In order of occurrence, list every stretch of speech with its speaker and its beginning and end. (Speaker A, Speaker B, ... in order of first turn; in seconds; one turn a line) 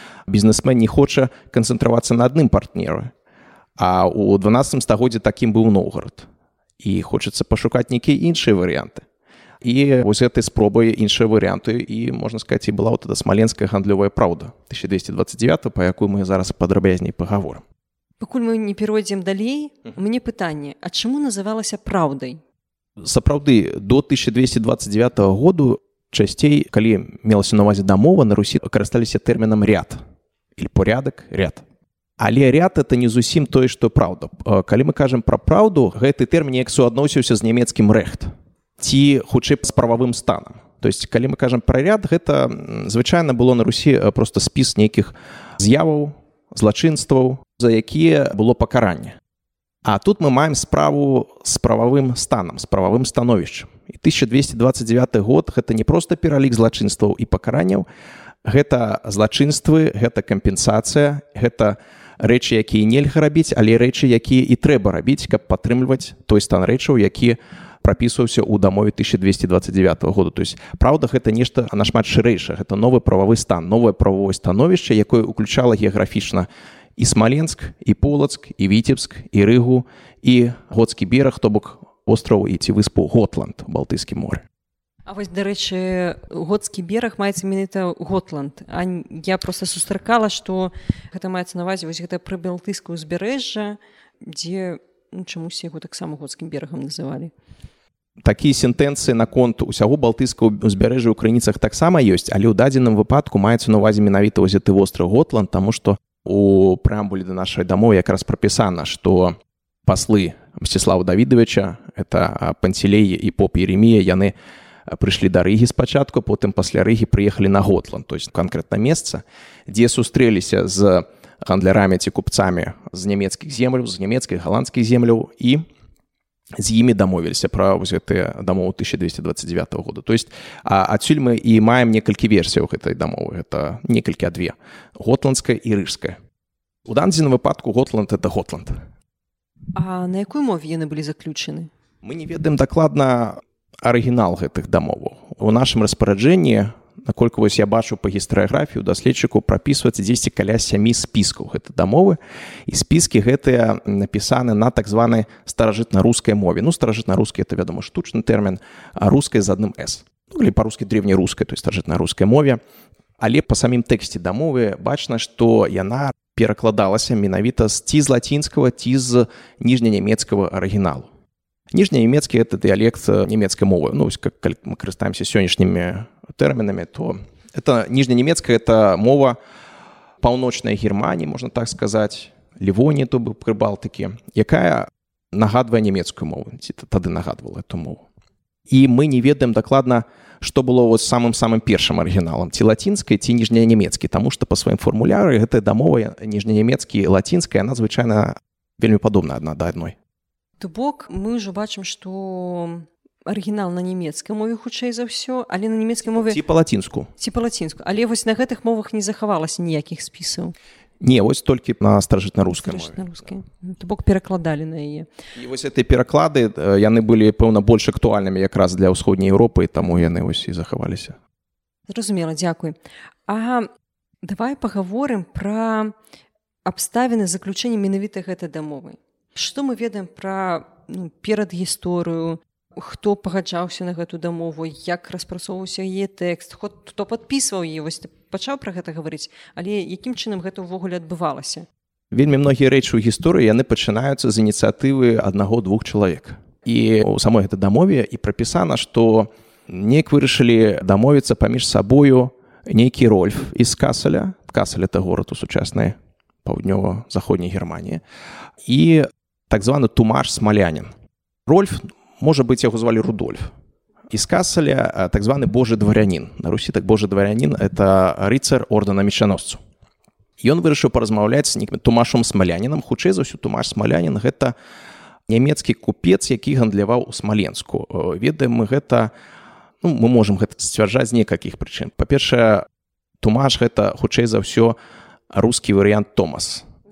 Speaker A: 0.3-3.1
Speaker A: 3.8-6.3
Speaker A: 6.8-9.1
Speaker A: 9.6-17.6
Speaker B: 18.2-22.4
Speaker A: 23.0-30.0
Speaker A: 30.6-31.6
Speaker A: 32.2-49.2
Speaker A: 49.9-57.9
Speaker A: 58.5-84.5
Speaker B: 85.1-97.3
Speaker A: 98.2-109.3
Speaker A: 109.9-114.3
Speaker A: 114.9-125.6
Speaker A: 126.6-136.2
Speaker A: 136.9-138.8
Speaker B: 139.8-141.7
Speaker A: 142.0-162.6
Speaker A: 163.2-171.1
Speaker A: 171.7-179.4
Speaker A: 180.2-188.0
Speaker A: 188.7-200.0
Speaker B: 200.6-206.4
Speaker A: 206.2-207.1
Speaker B: 207.2-210.6
Speaker A: 211.0-213.1
Speaker B: 212.4-215.1
Speaker A: 215.3-221.2
Speaker B: 221.9-223.7
Speaker B: 224.2-225.9
Speaker B: 226.7-241.7
Speaker A: 242.1-258.0
Speaker A: 258.6-260.9
Speaker A: 261.5-263.5
Speaker A: 264.1-269.6
Speaker A: 270.4-274.5
Speaker A: 275.3-279.1
Speaker A: 279.8-282.7
Speaker A: 283.2-284.8
Speaker A: 285.3-286.7